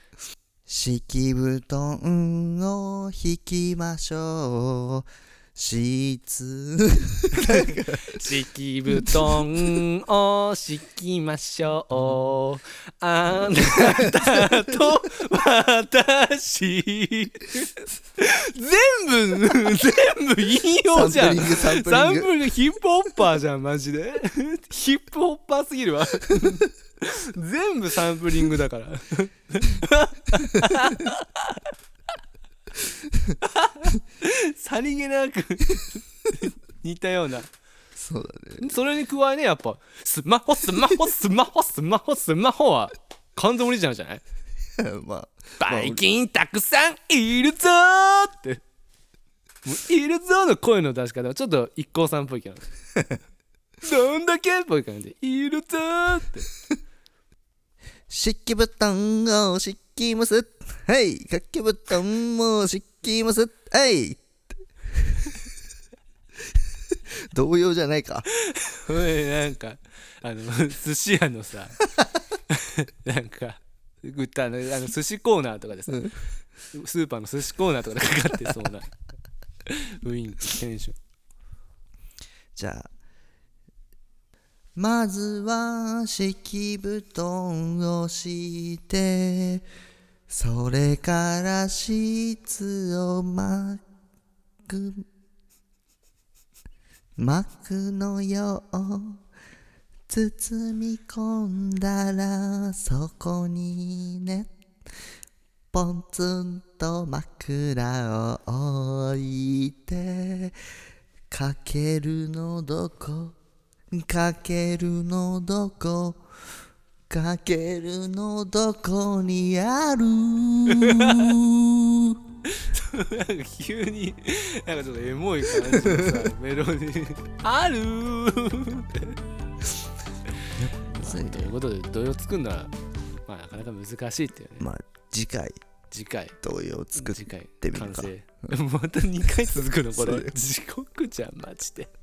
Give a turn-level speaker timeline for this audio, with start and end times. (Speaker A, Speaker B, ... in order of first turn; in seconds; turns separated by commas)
Speaker A: 0.7-8.2, Speaker B: 7.4-31.7, Speaker A: 9.0-9.7, Speaker A: 13.5-14.7, Speaker A: 20.9-22.3, Speaker A: 30.4-31.1, Speaker B: 33.4-37.5, Speaker A: 38.0-38.7, Speaker B: 38.6-44.2, Speaker A: 44.8-46.0, Speaker B: 45.6-48.6, Speaker B: 49.6-52.8, Speaker B: 53.8-56.5, Speaker A: 58.1-64.2, Speaker A: 65.0-65.4, Speaker A: 66.9-68.3, Speaker B: 68.3-71.8, Speaker B: 72.5-76.1, Speaker B: 76.7-78.9, Speaker B: 79.7-81.0, Speaker A: 82.5-82.9, Speaker A: 84.8-89.7, Speaker A: 90.3-93.8, Speaker A: 94.7-95.1, Speaker A: 97.2-99.2, Speaker A: 100.1-104.5, Speaker A: 105.7-110.6, Speaker A: 111.3-113.4, Speaker A: 113.9-116.2, Speaker A: 117.1-122.2, Speaker B: 120.7-121.4, Speaker B: 122.5-129.2, Speaker A: 125.6-126.3, Speaker A: 130.5-131.5, Speaker B: 130.9-132.7, Speaker B: 133.3-134.7, Speaker A: 134.6-135.7, Speaker B: 135.9-136.4, Speaker A: 136.4-138.5, Speaker B: 137.0-141.9, Speaker A: 139.9-140.3